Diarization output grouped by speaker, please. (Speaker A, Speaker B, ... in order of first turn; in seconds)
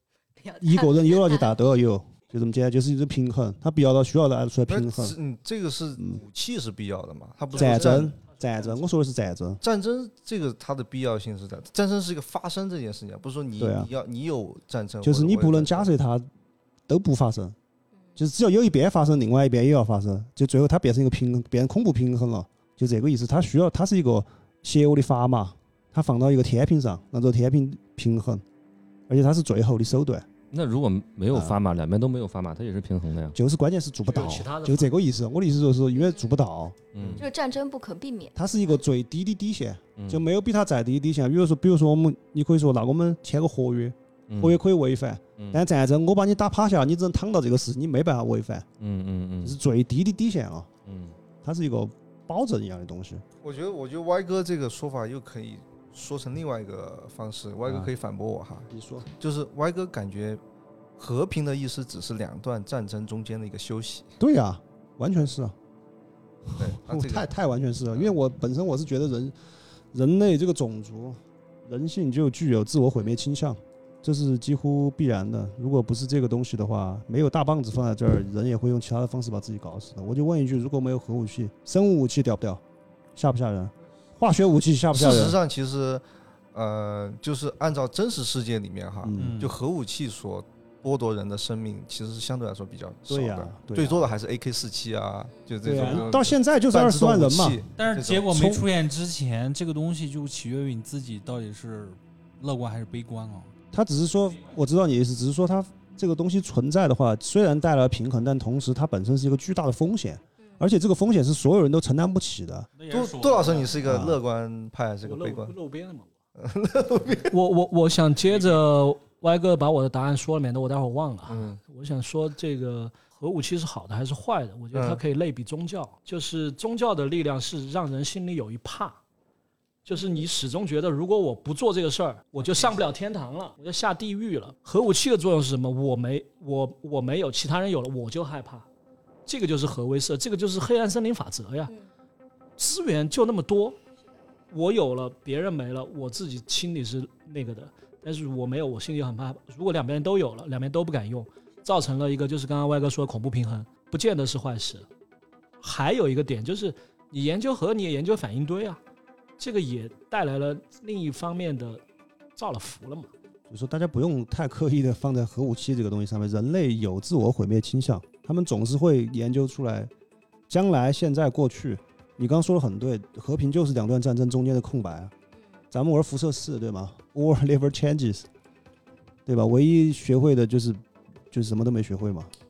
Speaker A: 0.4-1.5, 36.0-36.3, 37.2-38.4
Speaker B: 0.6-5.2, 7.5-9.6, 13.6-13.9, 15.0-16.3, 16.9-17.6, 18.2-28.4, 29.1-30.3, 31.3-31.6, 33.3-36.8, 38.4-48.7, 49.4-50.7, 51.4-53.2, 58.7-59.1, 64.2-65.5, 66.5-69.4, 69.9-82.6, 83.2-85.4, 89.0-89.4, 93.1-94.1, 95.6-97.6, 98.3-98.7, 103.7-112.7, 113.8-114.2, 163.5-169.9, 170.5-175.1, 175.7-178.3, 179.3-182.3
Speaker C: 4.7-8.1, 9.6-15.9, 37.0-37.2, 53.4-60.4, 61.0-64.1, 66.6-67.3, 84.9-86.0, 86.5-98.3, 112.9-115.5, 116.4-117.3, 121.3-121.6, 124.7-125.0
Speaker D: 8.3-8.8, 34.0-34.9, 115.0-116.1, 117.3-129.0, 129.8-138.7, 139.3-141.7, 142.6-143.8, 144.5-154.9, 155.6-158.8, 159.4-161.8, 162.4-163.1
Speaker E: 30.5-33.4, 36.9-37.3, 40.0-40.2, 44.3-44.6, 45.4-45.6, 48.8-49.6, 50.9-51.1
Speaker F: 89.2-89.6, 97.8-103.5, 112.8-113.9